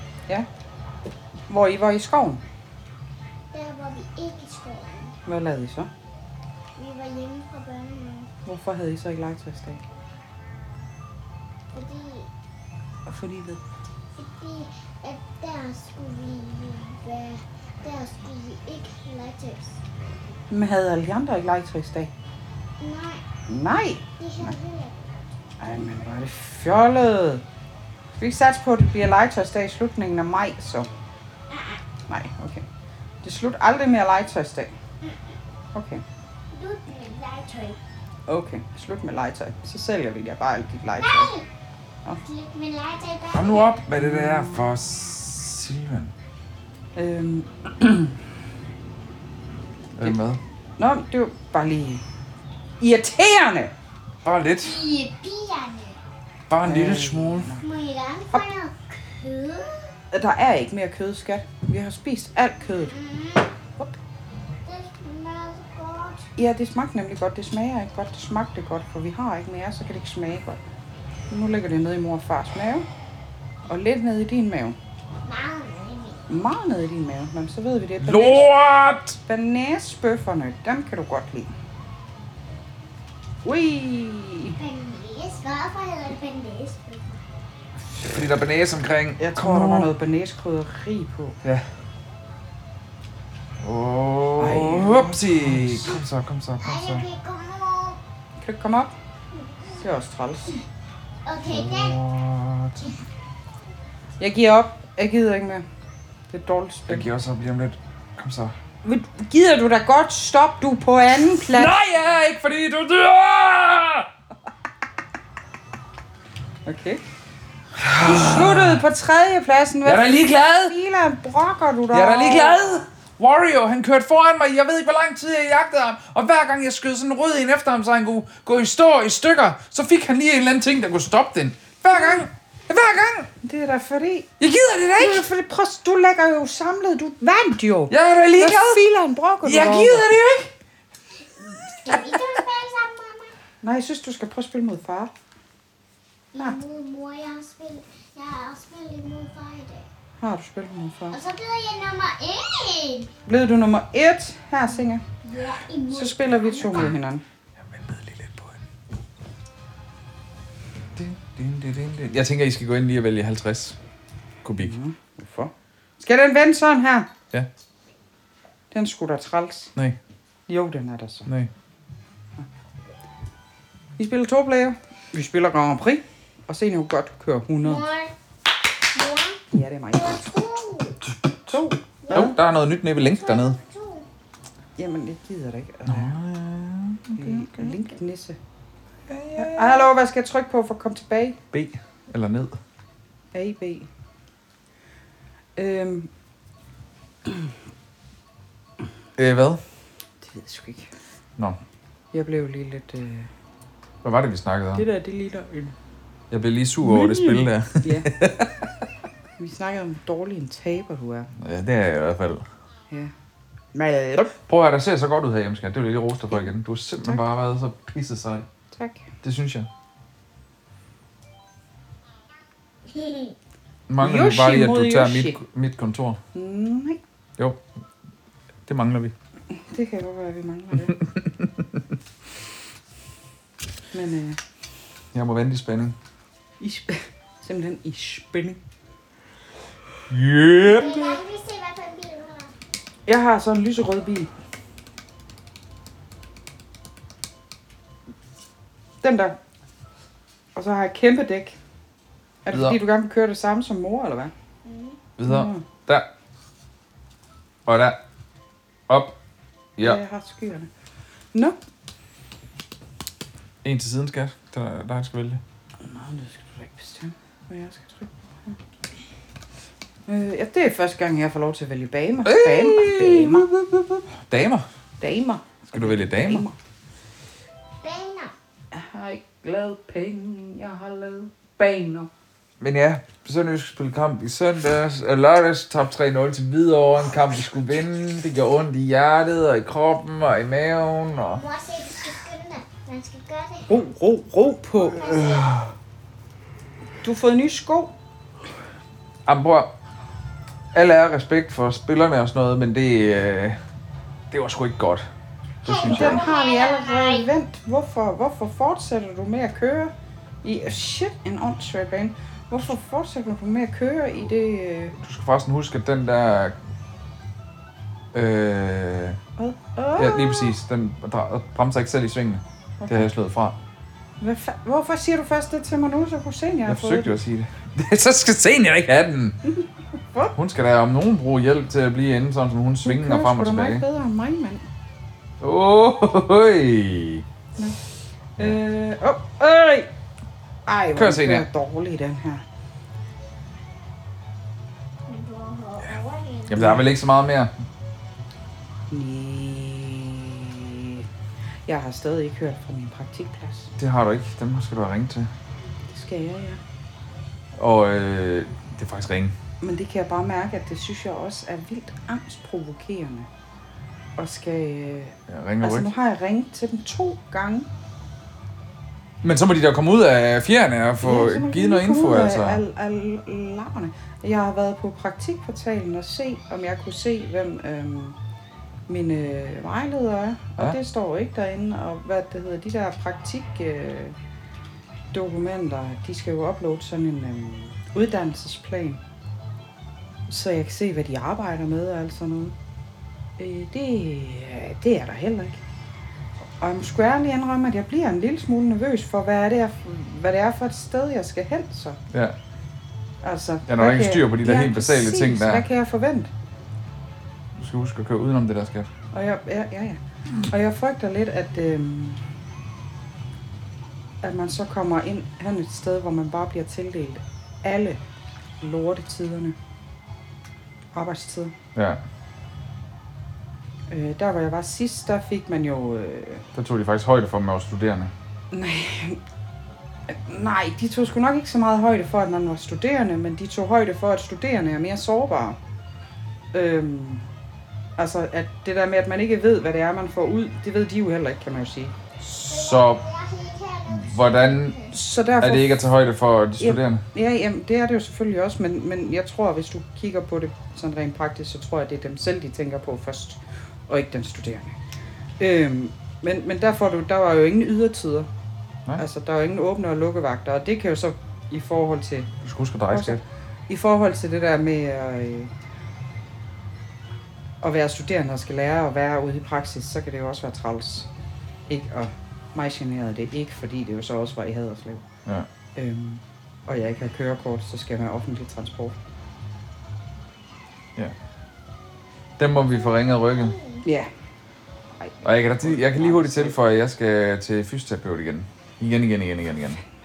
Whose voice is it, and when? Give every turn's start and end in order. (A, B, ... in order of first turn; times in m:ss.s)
0:01.5-0:02.4 A
0:03.5-0:05.2 B
0:05.2-0:05.9 A
0:06.8-0:08.3 B
0:08.4-0:09.8 A
0:11.7-0:12.3 B
0:13.1-0:13.6 A
0:14.2-0:19.8 B
0:20.5-0:22.1 A
0:22.8-0:23.2 B
0:23.5-0:24.6 A
0:24.2-0:25.2 B
0:25.6-0:27.4 A
0:28.2-0:30.9 A
0:31.5-0:31.8 B
0:32.1-0:32.6 A
0:33.2-0:34.7 A
0:35.7-0:36.0 A
0:36.5-0:37.8 B
0:38.3-0:41.3 A
0:41.0-0:41.5 B
0:42.2-0:43.8 B
0:43.3-0:46.1 C
0:44.0-0:44.7 A
0:47.0-0:48.2 A
0:50.0-0:50.4 C
0:50.8-0:52.0 A
0:52.8-0:53.7 A
0:54.2-0:54.8 C
0:54.6-0:56.0 B
0:56.5-0:57.5 C
0:56.6-0:57.6 A
0:57.6-0:59.9 B
1:00.1-1:02.9 A
1:02.8-1:03.5 B
1:04.6-1:06.3 B
1:06.4-1:10.6 A
1:11.3-1:12.9 A
1:13.7-1:14.8 A
1:15.2-1:16.3 B
1:16.3-1:18.5 A
1:18.0-1:19.2 C
1:19.2-1:21.5 A
1:23.4-1:24.6 A
1:24.6-1:27.2 B
1:28.0-1:29.9 C
1:29.2-1:31.4 A
1:33.6-1:37.1 C
1:34.4-1:35.9 A
1:36.6-1:38.0 B
1:38.4-1:38.9 A
1:39.4-1:39.8 B
1:39.8-1:40.6 A
1:41.2-1:42.0 B
1:41.4-1:42.9 C
1:44.2-1:45.6 A
1:46.3-1:47.1 A
1:46.9-1:48.5 C
1:48.8-1:51.8 A
1:51.4-1:54.1 C
1:56.6-1:57.0 A
1:57.7-1:58.8 C
1:58.0-2:02.6 A
1:59.8-2:00.7 C
2:01.9-2:13.3 C
2:11.9-2:12.2 A
2:13.4-2:14.3 A
2:14.4-2:15.2 C
2:15.0-2:20.1 A
2:17.9-2:18.8 C
2:19.4-2:20.5 C
2:21.7-2:23.4 B
2:23.6-2:25.1 A
2:26.3-2:29.9 B
2:30.2-2:31.2 A
2:31.1-2:33.1 B
2:33.2-2:35.0 A
2:35.2-2:37.0 B
2:35.9-2:37.2 A
2:37.6-2:38.6 C
2:40.9-2:43.8 C
2:44.4-2:44.8 C
2:44.6-2:47.1 A
2:48.7-2:49.7 A
2:50.5-2:51.3 A
2:54.0-2:57.9 A
2:57.6-2:58.1 B
2:58.9-3:01.0 B
2:59.5-3:00.3 A
3:01.5-3:02.3 A
3:02.0-3:04.1 B
3:02.1-3:03.6 C
3:04.8-3:06.2 A
3:05.9-3:07.8 C
3:07.2-3:08.4 A
3:09.1-3:09.9 C
3:09.4-3:11.4 A
3:11.5-3:12.6 C
3:13.3-3:13.9 A
3:15.6-3:16.1 A
3:19.2-3:19.6 C
3:20.2-3:20.9 A
3:22.1-3:23.3 A
3:24.0-3:24.8 C
3:24.7-3:25.7 A
3:26.3-3:28.4 C
3:26.8-3:28.2 A
3:29.4-3:31.3 A
3:31.4-3:32.4 C
3:33.7-3:34.3 A
3:34.3-3:38.4 C
3:38.7-3:39.1 A
3:39.2-3:39.7 C
3:42.9-3:43.3 B
3:43.9-3:46.2 C
3:44.0-3:45.4 A
3:46.3-3:47.0 A
3:48.7-3:49.1 C
3:49.5-3:51.0 A
3:53.9-3:54.4 A
3:55.1-3:56.0 C
3:56.6-3:58.6 A
4:00.1-4:01.2 C
4:00.7-4:02.5 B
4:03.1-4:04.3 A
4:09.0-4:09.4 A
4:10.5-4:11.6 A
4:12.4-4:14.3 A
4:12.5-4:12.8 C
4:14.6-4:15.0 B
4:15.2-4:16.1 C
4:15.2-4:15.6 A
4:17.6-4:18.0 C
4:18.9-4:19.1 C
4:19.8-4:20.7 A
4:23.6-4:25.4 C
4:25.8-4:28.6 A
4:30.1-4:33.5 A
4:32.2-4:34.6 C
4:35.0-4:36.6 A
4:35.7-4:36.4 C
4:37.8-4:38.3 B
4:38.7-4:42.1 A
4:42.6-4:51.4 C
4:51.4-4:53.7 B
4:53.7-4:55.1 A
4:54.9-4:55.6 B
4:55.2-4:55.7 C
4:57.0-4:57.9 A
4:59.2-4:59.7 C
5:00.7-5:03.6 C
5:04.3-5:05.1 C
5:05.6-5:06.2 C
5:05.6-5:07.3 B
5:05.8-5:15.0 A
5:15.0-5:16.6 C
5:18.1-5:19.2 C
5:19.4-5:20.6 A
5:20.0-5:23.6 C
5:22.8-5:23.1 A
5:24.2-5:27.2 A
5:26.7-5:29.4 C
5:30.4-5:33.8 C
5:32.8-5:34.6 A
5:35.4-5:37.2 C
5:38.4-5:39.9 A
5:40.6-5:42.4 A
5:40.9-5:41.4 C
5:45.1-5:46.6 B
5:46.5-5:47.5 C
5:46.5-5:46.8 A
5:48.9-5:51.1 A
5:51.7-5:53.7 A
5:53.8-5:55.3 C
5:55.9-5:56.6 A
5:57.6-5:59.3 C
5:59.6-6:03.3 A
6:04.2-6:07.7 A
6:05.3-6:05.9 C
6:09.2-6:12.6 C
6:11.0-6:18.2 A
6:18.9-6:24.2 A
6:25.1-6:29.0 A
6:30.3-6:32.5 A
6:33.4-6:35.6 A
6:36.6-6:42.0 A
6:42.1-6:42.4 C
6:43.2-6:46.3 A
6:43.7-6:45.6 C
6:47.5-6:48.9 C
6:49.1-6:52.2 A
6:54.2-6:58.0 A
6:58.6-6:59.6 A
7:00.9-7:01.5 A
7:01.7-7:02.0 C
7:03.9-7:06.4 A
7:06.5-7:08.1 C
7:08.5-7:09.2 A
7:10.1-7:15.6 A
7:16.5-7:17.2 A
7:18.0-7:21.9 A
7:22.2-7:23.0 C
7:22.4-7:24.9 B
7:23.9-7:24.8 C
7:24.9-7:25.9 A
7:25.4-7:27.0 C
7:26.6-7:34.7 A
7:35.4-7:38.3 A
7:39.0-7:42.3 A
7:42.4-7:43.2 C
7:42.9-7:45.5 A
7:47.6-7:51.1 A
7:51.7-7:55.0 A
7:55.8-7:59.0 A
8:02.4-8:03.6 C
8:02.5-8:03.9 B
8:03.8-8:04.1 A
8:05.0-8:06.6 A
8:05.2-8:09.8 C